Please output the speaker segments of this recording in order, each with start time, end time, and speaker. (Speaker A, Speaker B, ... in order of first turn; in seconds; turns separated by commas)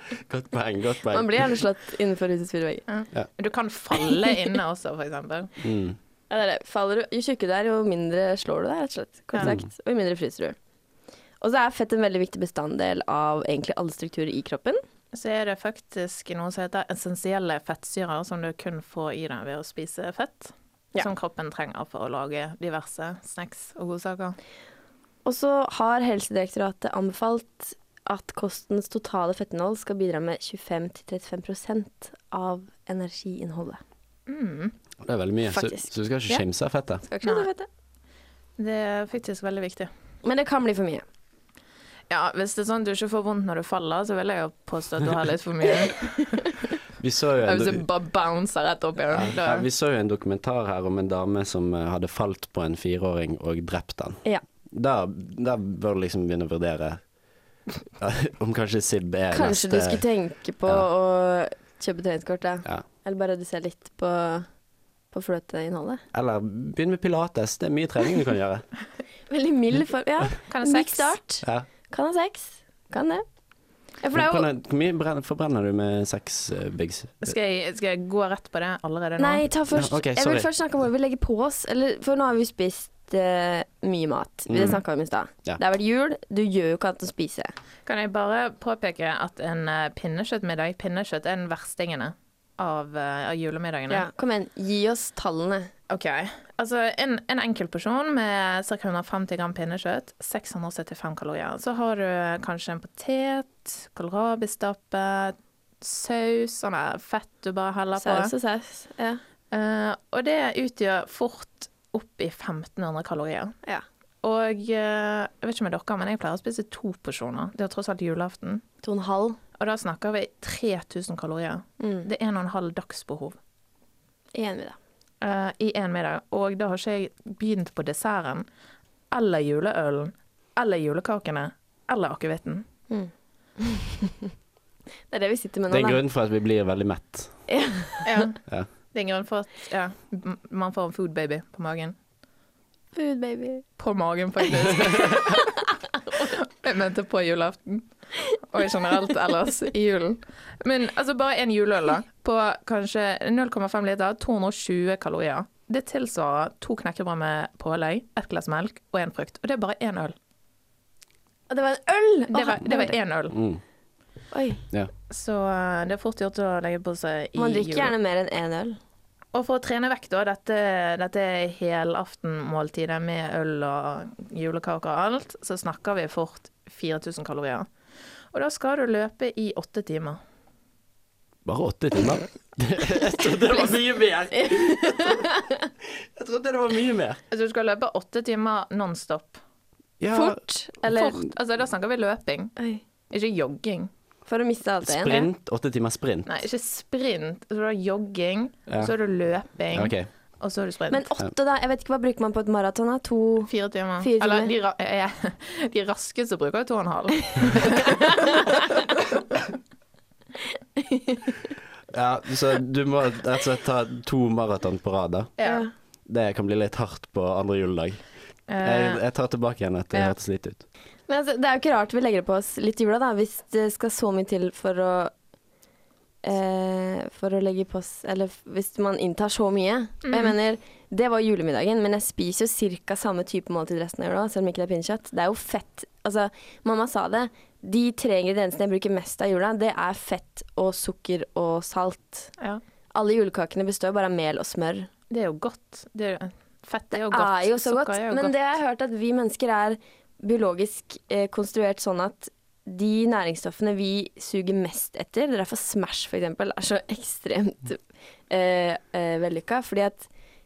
Speaker A: 0.2-1.6, Speaker B: 1.1-2.8, Speaker C: 2.9-5.5, Speaker A: 5.6-6.0, Speaker B: 6.3-10.6, Speaker B: 11.4-14.8, Speaker C: 15.1-24.4, Speaker B: 25.2-33.8, Speaker C: 34.3-34.8, Speaker A: 35.0-37.0, Speaker B: 35.5-36.4, Speaker B: 37.0-37.7, Speaker C: 37.2-37.5, Speaker C: 38.6-39.9, Speaker B: 40.2-41.0, Speaker C: 42.1-46.6, Speaker A: 47.0-47.9, Speaker C: 47.4-49.7, Speaker A: 49.1-57.0, Speaker A: 58.0-60.0, Speaker B: 59.3-64.5, Speaker B: 65.1-66.0, Speaker A: 66.1-68.7, Speaker B: 69.3-73.2, Speaker C: 70.5-71.2, Speaker B: 74.0-74.5, Speaker A: 74.1-77.3, Speaker C: 77.2-79.4, Speaker B: 79.2-87.5, Speaker A: 79.7-80.5, Speaker A: 84.5-84.8, Speaker C: 87.9-94.1, Speaker B: 93.9-95.7, Speaker C: 95.9-108.3, Speaker B: 108.0-109.2, Speaker C: 109.5-113.5, Speaker C: 114.2-118.6, Speaker B: 118.8-119.4, Speaker C: 119.6-123.4, Speaker B: 121.8-122.1, Speaker B: 124.3-124.8, Speaker C: 125.2-128.5, Speaker C: 129.1-132.7, Speaker B: 132.9-134.3, Speaker B: 135.1-136.0, Speaker A: 135.7-137.3, Speaker B: 137.5-138.2, Speaker C: 138.1-138.4, Speaker C: 138.9-141.9, Speaker B: 142.9-143.7, Speaker C: 143.8-145.6, Speaker C: 146.1-160.2, Speaker B: 161.5-163.0, Speaker C: 162.3-163.3, Speaker A: 163.3-163.6, Speaker B: 164.3-164.6, Speaker C: 165.1-167.9, Speaker B: 167.4-168.8, Speaker C: 169.3-177.7, Speaker C: 178.3-180.2, Speaker A: 181.4-185.3, Speaker B: 184.4-185.6, Speaker A: 186.2-187.2, Speaker C: 187.3-189.4, Speaker A: 190.0-190.4, Speaker B: 190.1-191.2, Speaker C: 190.9-192.6, Speaker B: 192.6-192.8, Speaker C: 193.1-193.9, Speaker B: 194.3-195.3, Speaker A: 194.8-196.3, Speaker C: 196.3-201.1, Speaker A: 199.7-200.1, Speaker B: 200.9-204.5, Speaker C: 203.5-208.6, Speaker B: 207.8-208.6, Speaker B: 210.8-211.3, Speaker A: 211.9-215.3, Speaker C: 215.4-215.7, Speaker B: 215.4-215.7, Speaker A: 216.1-218.0, Speaker C: 218.5-219.0, Speaker A: 218.6-220.6, Speaker B: 221.1-225.1, Speaker B: 226.2-242.3, Speaker C: 230.0-230.3, Speaker B: 242.9-244.9, Speaker C: 245.1-248.4, Speaker B: 246.9-260.1